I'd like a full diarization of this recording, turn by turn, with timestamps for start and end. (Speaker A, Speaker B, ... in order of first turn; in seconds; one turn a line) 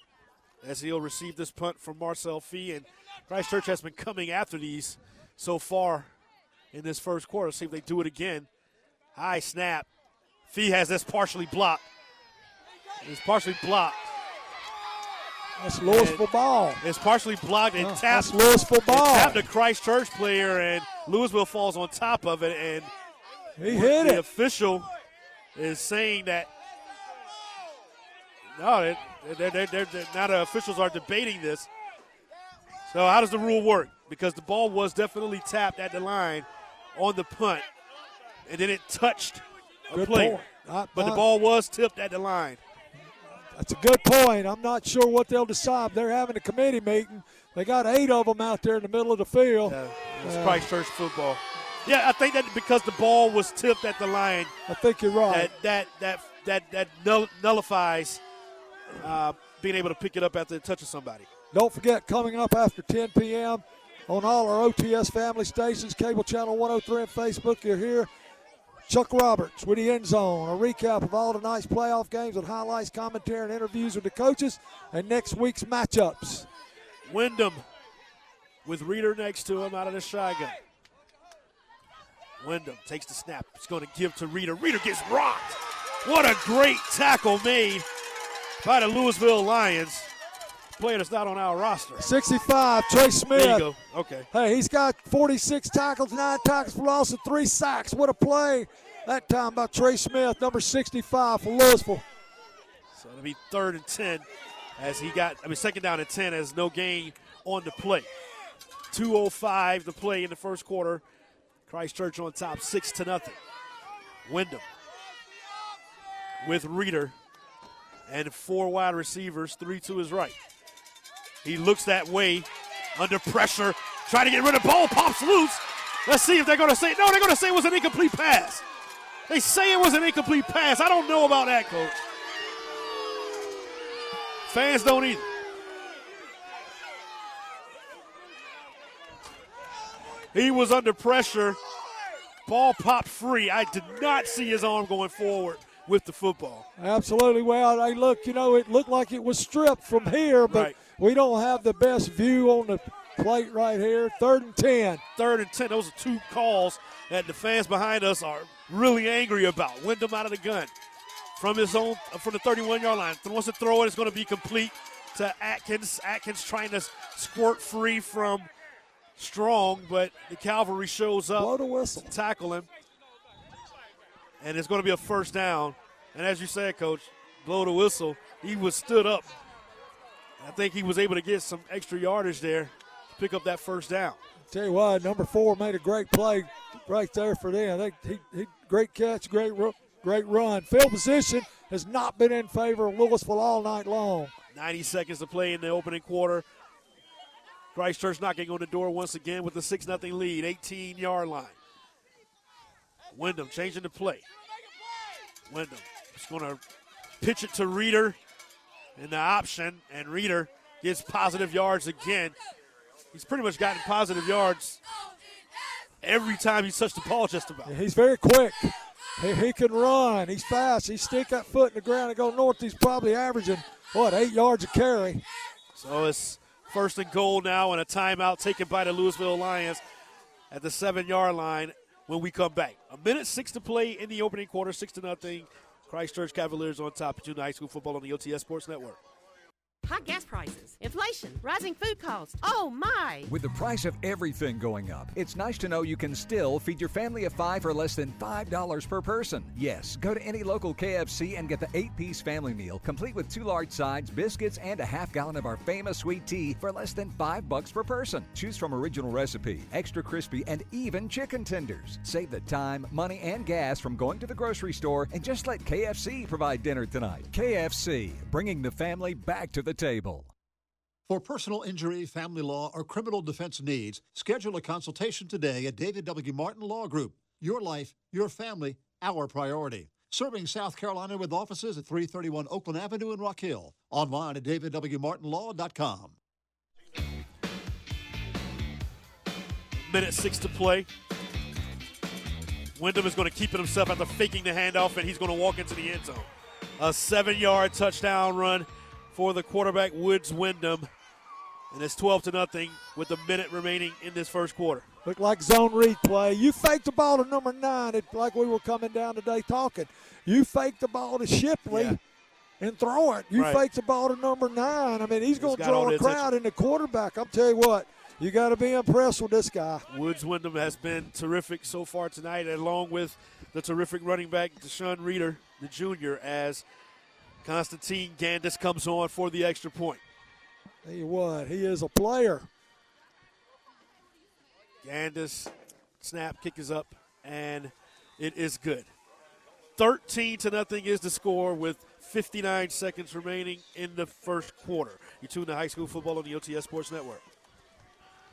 Speaker A: 0.6-6.1
Speaker A: 6.7-8.5
Speaker A: 9.2-9.9
Speaker A: 10.5-11.8
Speaker A: 13.0-14.1
Speaker B: 15.6-16.8
Speaker A: 15.8-16.2
Speaker A: 16.8-22.9
Speaker B: 17.8-19.4
Speaker B: 23.6-24.2
Speaker A: 23.6-24.9
Speaker A: 25.6-26.5
Speaker A: 28.6-31.7
Speaker A: 32.9-37.7
Speaker A: 38.5-40.4
Speaker B: 39.9-41.2
Speaker A: 41.0-42.6
Speaker B: 43.3-50.6
Speaker A: 49.7-54.5
Speaker B: 54.7-55.5
Speaker A: 55.3-58.2
Speaker A: 59.0-61.3
Speaker B: 61.5-68.1
Speaker B: 68.9-76.5
Speaker A: 77.1-77.7
Speaker A: 78.7-80.6
Speaker A: 82.4-87.9
Speaker A: 88.6-90.1
Speaker A: 90.8-92.1
Speaker B: 92.0-93.7
Speaker A: 93.3-94.3
Speaker B: 94.3-102.0
Speaker A: 102.9-108.1
Speaker A: 108.9-111.0
Speaker A: 111.7-113.4
Speaker A: 114.3-114.7
Speaker A: 116.4-117.2
Speaker A: 118.1-120.4
Speaker A: 121.4-128.6
Speaker A: 129.3-132.0
Speaker A: 134.5-135.3
Speaker A: 140.3-141.6
Speaker A: 142.5-146.7
Speaker B: 146.8-155.0
Speaker A: 150.5-150.8
Speaker A: 155.2-160.7
Speaker A: 161.4-168.5
Speaker A: 169.2-171.5
Speaker B: 171.4-172.1
Speaker A: 172.1-172.7
Speaker A: 174.4-179.3
Speaker A: 180.4-184.2
Speaker B: 184.5-194.3
Speaker A: 194.5-196.4
Speaker A: 197.7-201.6
Speaker A: 203.1-204.3
Speaker A: 205.5-206.6
Speaker A: 207.2-208.2
Speaker A: 209.0-212.4
Speaker A: 213.1-214.8
Speaker A: 216.0-217.7
Speaker B: 217.7-225.2
Speaker A: 225.8-229.8
Speaker A: 230.5-239.0
Speaker C: 239.8-243.3
Speaker D: 243.3-270.3
Speaker E: 271.1-286.1
Speaker A: 289.9-290.9
Speaker A: 292.8-300.9
Speaker A: 301.7-304.9
Speaker B: 305.1-312.0
Speaker A: 311.7-312.0
Speaker B: 312.6-319.9
Speaker A: 313.3-313.6
Speaker A: 315.4-316.3
Speaker A: 319.9-326.6
Speaker A: 327.4-330.0
Speaker B: 330.8-332.5
Speaker A: 334.8-338.9
Speaker A: 339.8-347.2